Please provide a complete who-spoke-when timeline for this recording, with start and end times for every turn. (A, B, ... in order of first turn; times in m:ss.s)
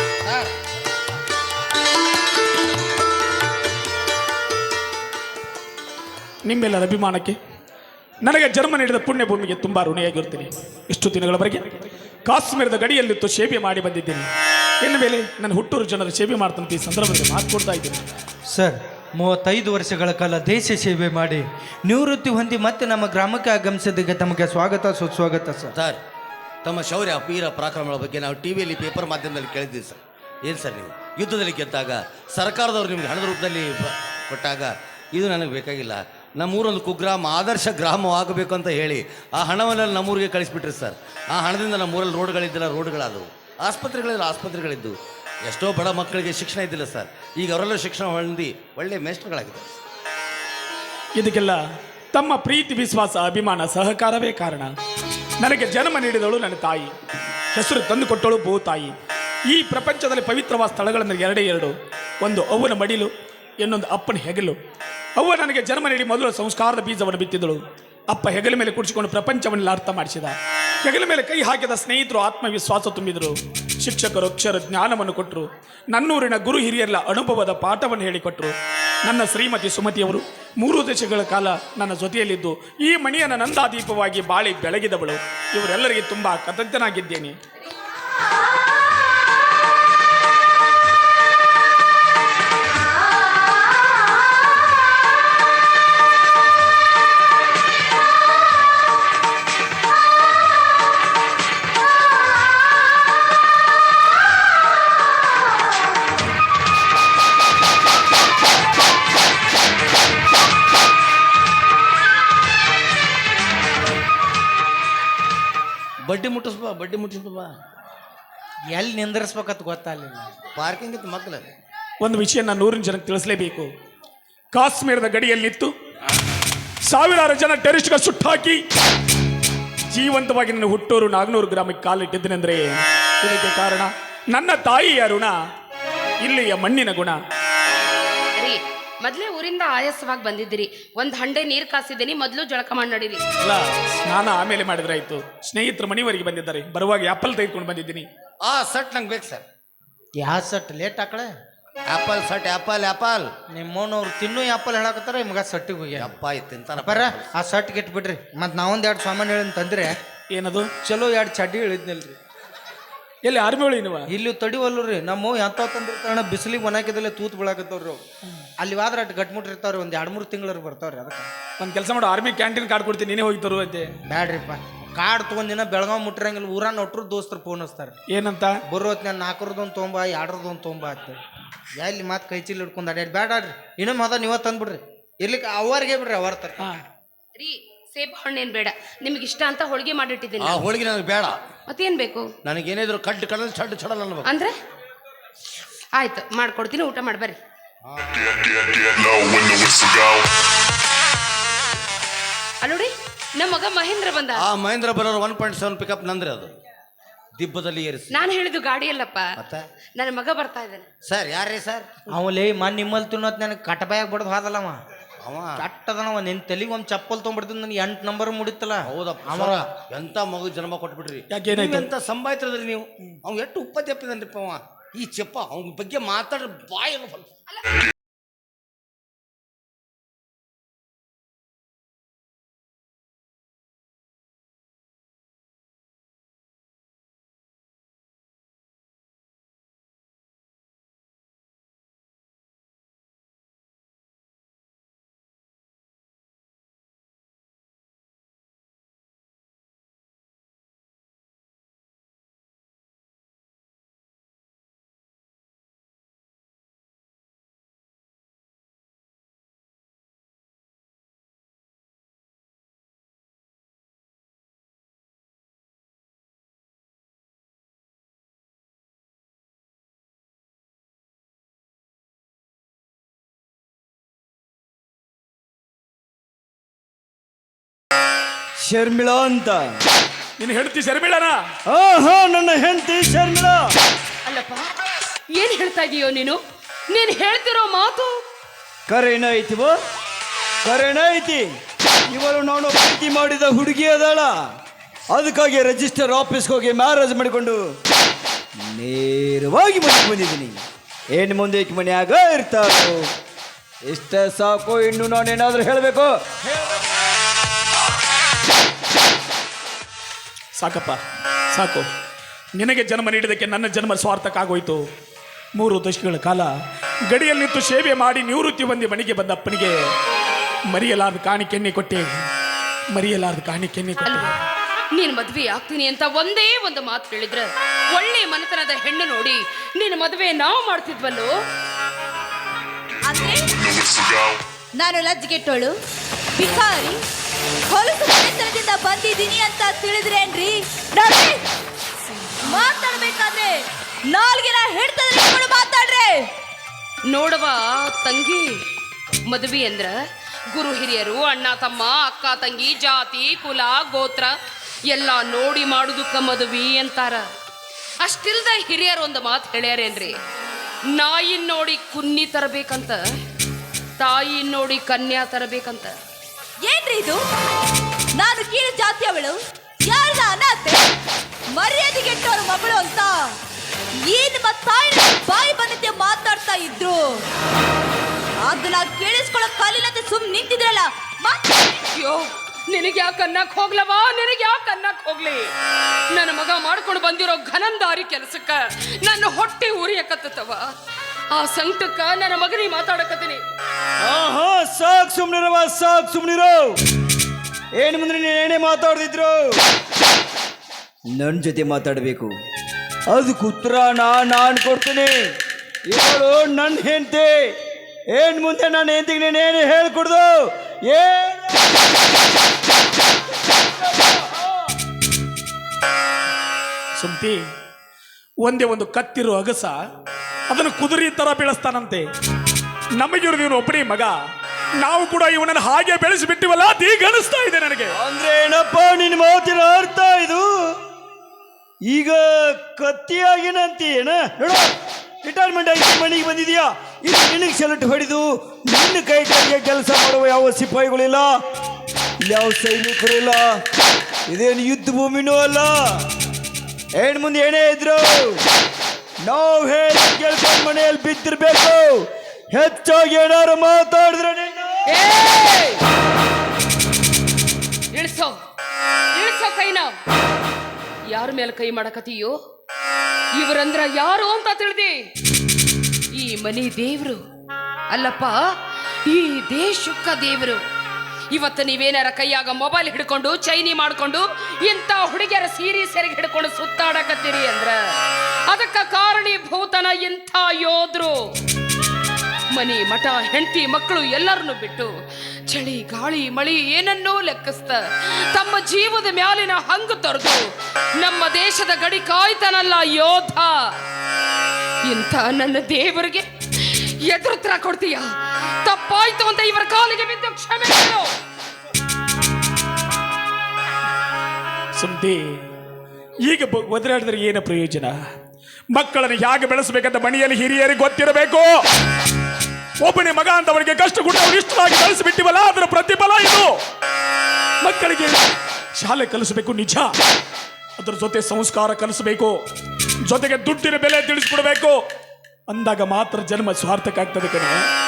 0:00.2-0:00.5 A
0:06.4-0:07.4 B
0:08.2-0:11.7 B
0:12.2-0:14.3 B
0:14.8-0:18.0 B
0:18.5-0:25.8 C
0:25.7-0:26.0 A
0:26.6-0:49.7 A
0:51.2-0:51.6 B
0:52.1-0:54.7 B
0:55.4-0:56.9 B
0:57.5-0:58.9 B
0:59.5-1:04.6 B
1:05.2-1:18.5 B
1:19.0-1:27.4 B
1:56.0-1:57.5 A
1:58.7-2:00.3 C
2:00.6-2:01.4 A
2:02.0-2:03.7 B
2:04.5-2:05.7 B
2:06.9-2:08.6 B
2:09.9-2:15.3 B
2:16.2-2:17.2 B
2:18.4-2:23.2 D
2:23.4-2:28.1 B
2:28.4-2:29.4 A
2:30.2-2:31.3 C
2:31.9-2:33.3 A
2:33.5-2:36.1 C
2:36.0-2:37.2 A
2:36.8-2:40.0 C
2:40.3-2:40.7 B
2:40.8-2:42.2 C
2:43.2-2:44.1 B
2:44.1-2:48.0 C
2:48.6-2:51.3 C
2:51.6-2:53.9 B
2:54.1-2:57.9 C
2:58.1-2:58.6 B
2:58.7-3:01.2 C
3:01.8-3:06.7 C
3:07.4-3:10.7 D
3:10.4-3:11.4 A
3:11.7-3:12.3 D
3:12.4-3:14.3 A
3:14.2-3:14.5 D
3:15.9-3:17.4 D
3:17.8-3:18.4 A
3:18.1-3:20.3 E
3:22.6-3:24.5 D
3:24.4-3:26.5 A
3:27.4-3:28.1 A
3:28.1-3:29.3 D
3:29.4-3:29.6 A
3:30.0-3:30.9 D
3:31.0-3:31.9 A
3:32.1-3:34.8 C
3:35.2-3:35.6 A
3:35.6-3:39.7 C
3:38.9-3:47.3 A
3:41.3-3:41.9 B
4:38.6-4:39.8 F
4:40.4-4:41.4 B
4:41.7-4:43.7 F
4:44.2-4:44.7 D
4:45.3-4:46.4 D
4:46.9-4:48.1 D
4:48.9-4:49.8 F
4:50.6-4:51.4 F
4:52.1-4:54.3 F
4:55.1-4:57.6 F
4:58.6-5:00.6 F
5:01.1-5:03.1 F
5:03.9-5:06.3 F
5:10.6-5:11.0 B
5:11.5-5:11.9 B
5:12.6-5:14.8 B
5:15.5-5:16.5 B
5:17.1-5:19.7 B
5:20.7-5:22.1 B
5:22.9-5:24.3 B
5:24.0-5:24.3 D
5:25.0-5:31.3 D
5:33.0-5:34.0 G
5:33.8-5:34.3 E
5:34.7-5:35.8 G
5:36.4-5:37.0 G
5:37.7-5:41.4 G
5:42.5-5:46.3 G
5:47.1-5:48.5 D
5:49.3-5:50.0 D
5:50.5-5:54.3 D
5:54.9-5:57.2 D
5:58.0-6:00.2 D
6:00.9-6:03.0 D
6:04.0-6:05.9 D
6:06.6-6:07.2 G
6:08.2-6:10.9 G
6:11.5-6:13.4 G
6:14.0-6:17.2 G
6:18.4-6:21.4 G
6:22.0-6:25.5 D
6:26.1-6:30.7 D
6:31.3-6:33.4 D
6:34.0-6:36.8 F
6:37.7-6:39.6 F
6:41.1-6:42.3 F
6:43.1-6:45.2 F
6:45.9-6:47.5 F
6:48.1-6:51.8 F
6:53.5-6:54.7 F
6:57.0-6:57.4 B
6:58.4-6:59.8 B
7:00.5-7:02.0 B
7:03.0-7:04.1 B
7:04.8-7:07.9 B
7:08.0-7:10.8 F
7:11.8-7:14.7 F
7:15.2-7:21.3 F
7:22.2-7:23.6 F
7:24.3-7:26.1 F
7:27.0-7:28.4 F
7:29.2-7:34.8 F
7:34.8-7:35.8 D
7:37.9-7:38.3 D
7:39.1-7:39.9 D
7:41.1-7:42.3 D
7:43.4-7:45.0 D
7:46.1-7:47.2 D
7:47.9-7:48.4 D
7:49.0-7:50.6 D
7:51.3-7:57.7 D
7:58.5-8:01.2 D
8:02.5-8:04.9 D
8:05.5-8:10.4 D
8:11.0-8:13.6 D
8:14.8-8:18.1 D
8:18.6-8:21.1 D
8:24.7-8:25.2 B
8:26.3-8:27.9 B
8:28.7-8:31.6 B
8:32.8-8:36.5 B
8:37.6-8:38.2 B
8:38.8-8:39.9 B
8:40.8-8:42.4 B
8:43.0-8:44.8 B
8:45.5-8:47.6 B